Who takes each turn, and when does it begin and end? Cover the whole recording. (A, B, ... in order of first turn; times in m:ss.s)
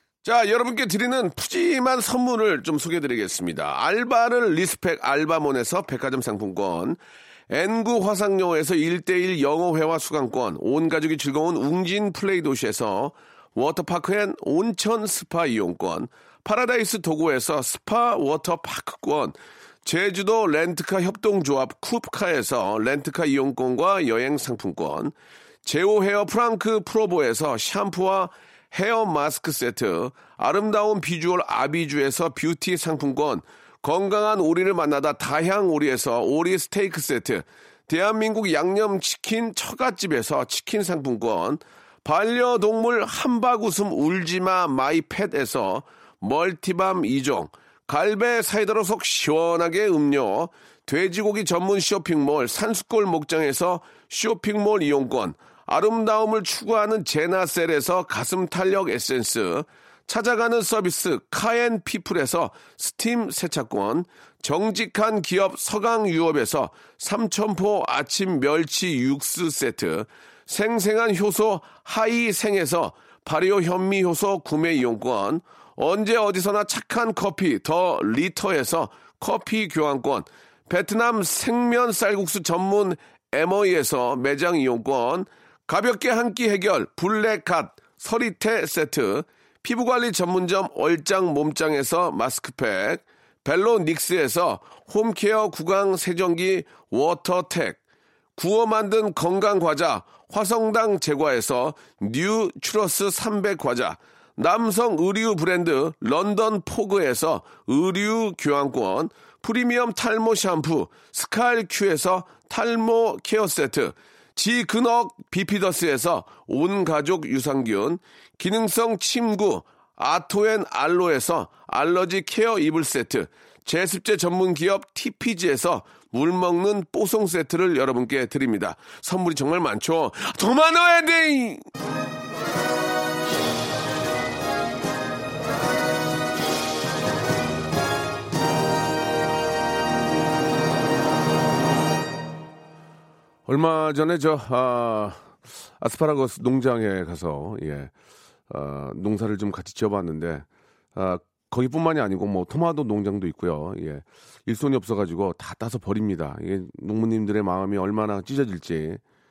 0:00.2-0:07.0 A
0:07.5-0:25.1 A
0:25.6-1:37.8 A
1:38.4-2:11.6 A
2:23.4-2:27.9 A
2:28.5-2:39.0 A